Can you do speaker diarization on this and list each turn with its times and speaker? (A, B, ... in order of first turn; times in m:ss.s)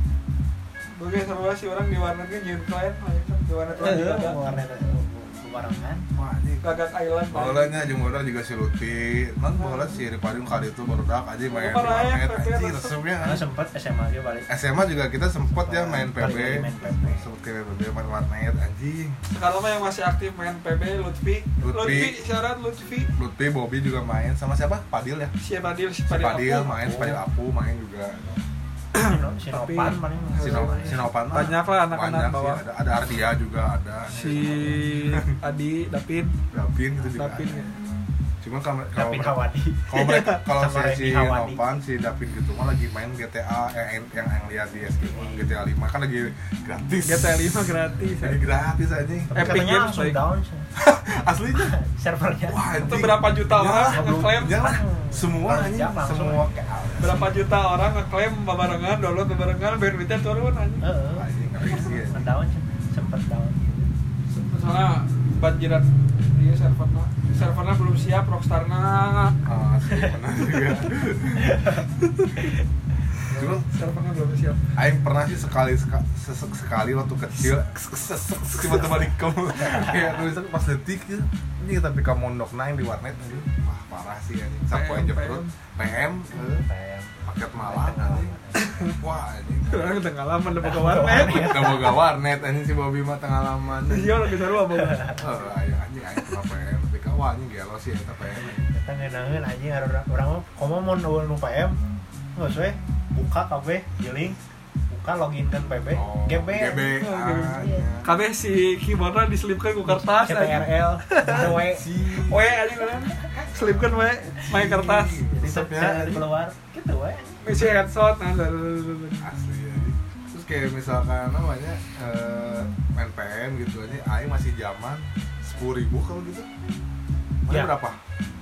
0:00.9-0:04.4 A
0:03.7-0:06.1 B
0:06.1-0:13.4 C
0:06.6-0:07.9 A
0:09.6-0:10.0 A
0:11.5-0:13.0 A
0:13.2-0:14.5 B
0:14.5-0:19.2 C
0:15.6-0:17.3 B
0:19.3-0:23.1 A
0:21.6-0:22.2 C
0:23.2-0:25.3 C
0:25.4-0:27.2 A
0:26.1-0:28.4 C
0:28.9-0:32.6 A
0:29.0-0:31.1 B
0:30.4-0:35.3 C
0:34.1-0:36.3 A
0:36.5-0:37.6 C
0:37.1-0:37.7 A
0:38.4-0:49.3 C
0:38.9-0:41.6 B
0:39.9-0:40.4 A
0:45.1-0:45.6 B
0:47.0-0:48.4 A
0:49.3-0:50.7 B
0:49.4-0:50.2 A
0:50.8-0:51.7 C
0:51.5-0:52.7 B
0:52.5-0:57.3 C
0:52.8-0:54.6 A
0:53.6-0:56.4 B
0:57.0-1:00.8 A
1:00.8-1:03.9 B
1:01.1-1:02.3 C
1:04.3-1:09.4 A
1:09.4-1:11.6 C
1:09.9-1:10.1 B
1:11.4-1:11.9 B
1:12.1-1:12.5 A
1:13.3-1:13.7 C
1:13.6-1:14.6 A
1:14.8-1:26.6 C
1:18.7-1:20.3 B
1:24.7-1:25.5 A
1:26.4-1:28.8 B
1:27.2-1:30.0 C
1:28.6-1:29.0 A
1:29.7-1:31.8 A
1:30.6-1:32.0 B
1:31.1-1:34.3 C
1:33.9-1:35.2 A
1:34.7-1:35.2 B
1:35.2-1:38.6 C
1:38.4-1:41.8 B
1:42.4-1:44.4 B
1:44.9-1:47.9 B
1:45.9-1:48.1 C
1:47.0-1:55.3 A
1:49.8-1:51.8 B
1:51.2-1:52.6 C
1:53.5-1:56.2 C
1:55.3-1:57.4 B
1:57.4-1:59.3 A
1:59.2-2:06.5 C
2:07.4-2:08.0 C
2:07.5-2:07.8 B